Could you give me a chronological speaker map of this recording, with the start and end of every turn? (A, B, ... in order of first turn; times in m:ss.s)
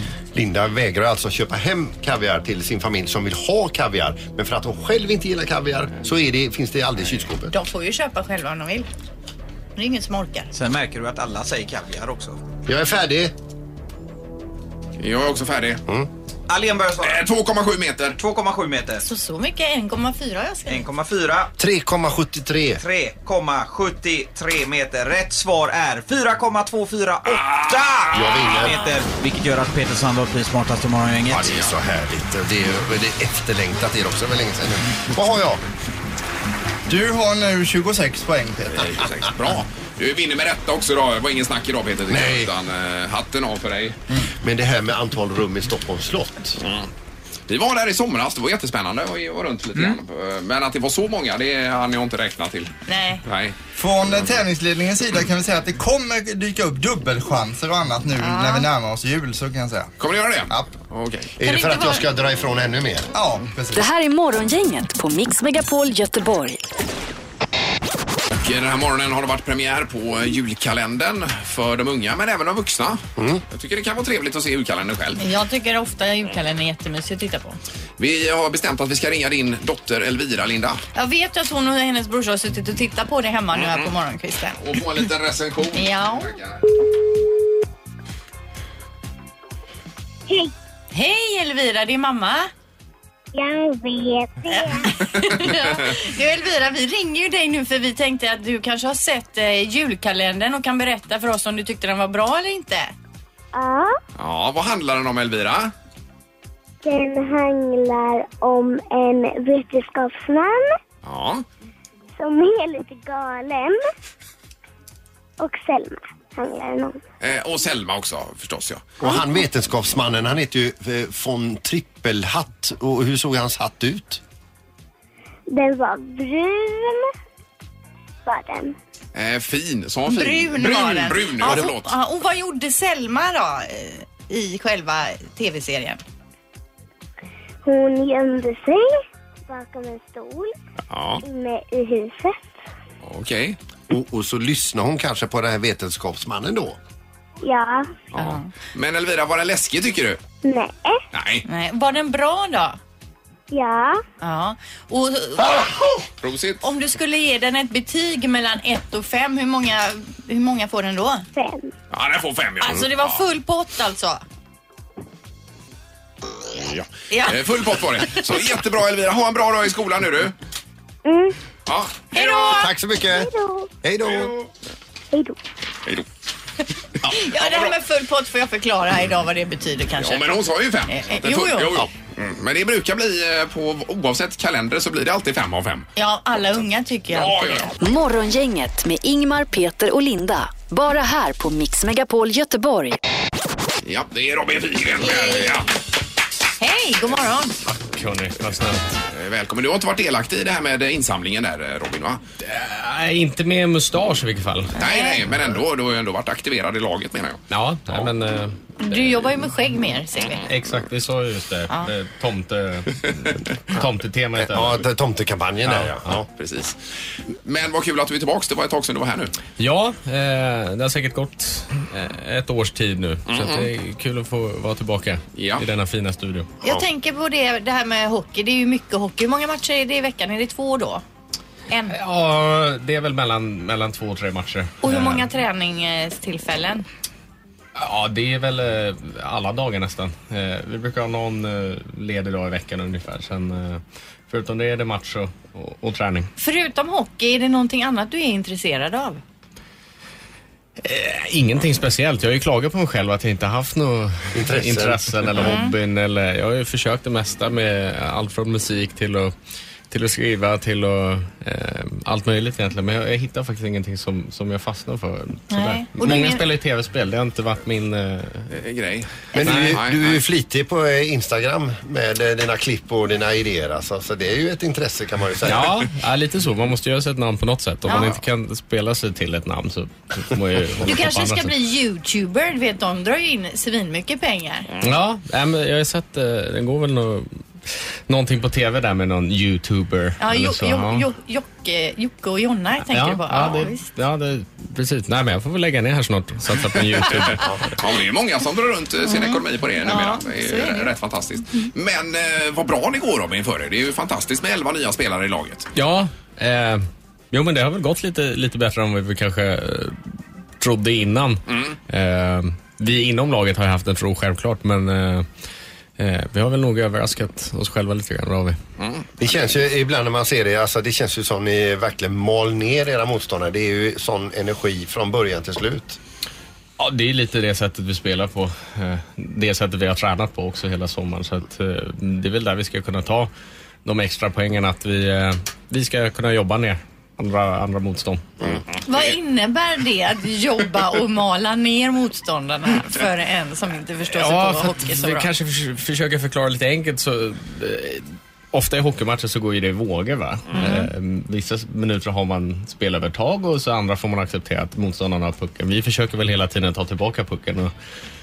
0:00.3-0:07.5 A
0:07.5-0:08.9 B
0:09.8-0:10.5 B
0:10.5-0:12.4 C
0:12.7-0:13.3 A
0:15.0-0:15.8 D
0:16.5-0:17.2 C
0:17.0-0:18.2 D
0:18.2-0:19.0 C
0:19.0-0:20.8 B
0:20.7-0:21.5 C
0:21.6-0:22.8 A
0:22.8-0:31.5 C
0:27.2-0:28.5 D
0:28.1-0:28.8 A
0:28.6-0:29.0 B
0:31.3-0:35.6 A
0:36.9-0:39.0 E
0:38.7-0:44.0 D
0:42.1-0:42.5 A
0:44.4-0:46.6 A
0:46.6-0:46.9 D
0:47.5-0:53.6 D
0:52.9-0:53.2 B
0:53.8-0:59.9 E
0:58.2-0:58.7 B
1:00.0-1:01.3 D
1:01.4-1:03.1 A
1:01.4-1:02.1 B
1:03.1-1:03.9 E
1:03.7-1:06.6 F
1:08.4-1:15.2 D
1:13.2-1:13.4 A
1:15.2-1:17.6 B
1:18.0-1:20.8 D
1:21.0-1:24.6 B
1:23.6-1:23.9 D
1:24.6-1:26.6 D
1:25.8-1:26.3 B
1:30.9-1:32.5 B
1:33.3-1:34.9 G
1:34.5-1:42.9 B
1:35.2-1:35.6 D
1:43.5-1:44.0 G
1:44.2-1:45.7 D
1:46.8-1:50.8 G
1:51.0-1:51.4 D
1:52.2-1:53.9 G
1:55.4-1:57.0 G
1:57.2-1:59.0 D
1:59.0-2:04.2 A
2:05.5-2:07.1 G
2:08.2-2:08.8 G
2:09.1-2:12.0 D
2:10.1-2:16.0 B
2:17.6-2:18.9 G
2:19.5-2:20.5 G
2:20.9-2:21.2 D
2:21.2-2:22.5 G
2:23.0-2:23.6 D
2:23.9-2:26.8 A
2:27.4-2:28.0 G
2:28.1-2:28.5 B
2:28.1-2:30.2 D
2:30.4-2:31.0 G
2:31.1-2:31.4 D
2:31.4-2:32.8 B
2:33.5-2:34.0 G
2:34.2-2:35.7 B
2:36.2-2:36.6 D
2:36.6-2:41.3 B
2:41.3-2:41.7 G
2:41.9-2:43.2 D
2:42.6-2:44.2 B
2:46.6-2:50.4 D
2:47.1-2:47.4 B
2:51.0-2:51.4 G
2:51.7-2:52.2 D
2:52.1-2:52.7 B
2:52.2-2:53.7 G
2:52.6-2:53.3 A
2:53.8-2:54.4 A
2:54.1-2:54.5 D
2:55.1-2:55.4 G
2:57.0-2:57.7 D
2:57.1-3:01.7 B
3:00.0-3:05.9 D
3:06.0-3:07.7 B
3:07.1-3:07.7 D
3:07.8-3:13.0 F
3:13.8-3:15.7 D
3:15.0-3:15.6 B
3:16.6-3:17.5 B
3:17.6-3:19.0 H
3:19.1-3:22.2 D
3:22.4-3:24.8 H
3:24.8-3:25.2 B
3:24.8-3:28.1 D
3:27.5-3:29.3 H
3:28.8-3:30.4 B
3:30.4-3:34.8 H
3:34.4-3:36.3 A
3:35.7-3:36.8 D
3:37.4-3:39.3 D
3:39.6-3:46.5 H
3:43.3-3:43.7 D
3:45.4-3:45.6 D
3:46.6-3:51.0 B
3:51.7-3:52.0 B
3:51.9-3:55.3 H
3:54.8-3:56.9 B
3:57.8-4:06.3 H
4:06.4-4:09.2 B
4:10.8-4:19.3 H
4:14.4-4:15.5 A
4:15.4-4:15.8 B
4:19.9-4:28.5 H
4:25.5-4:26.5 B
4:28.5-4:30.2 D
4:29.4-4:35.8 A
4:29.4-4:29.8 H
4:35.5-4:41.5 H
4:37.8-4:38.1 B
4:40.8-4:44.7 B
4:44.8-4:51.1 H
4:50.2-4:53.8 B
4:52.9-4:57.8 H
4:53.4-4:53.7 D
4:57.8-5:05.7 D
4:59.0-5:01.0 B
5:05.8-5:10.0 H
5:10.6-5:15.3 H
5:11.5-5:11.8 D
5:16.0-5:18.6 H
5:18.8-5:19.4 D
5:19.2-5:26.0 A
5:26.8-5:33.3 H
5:33.8-5:38.6 H
5:38.5-5:39.0 D
5:38.8-5:45.3 B
5:44.1-5:57.7 H
5:50.5-5:50.9 B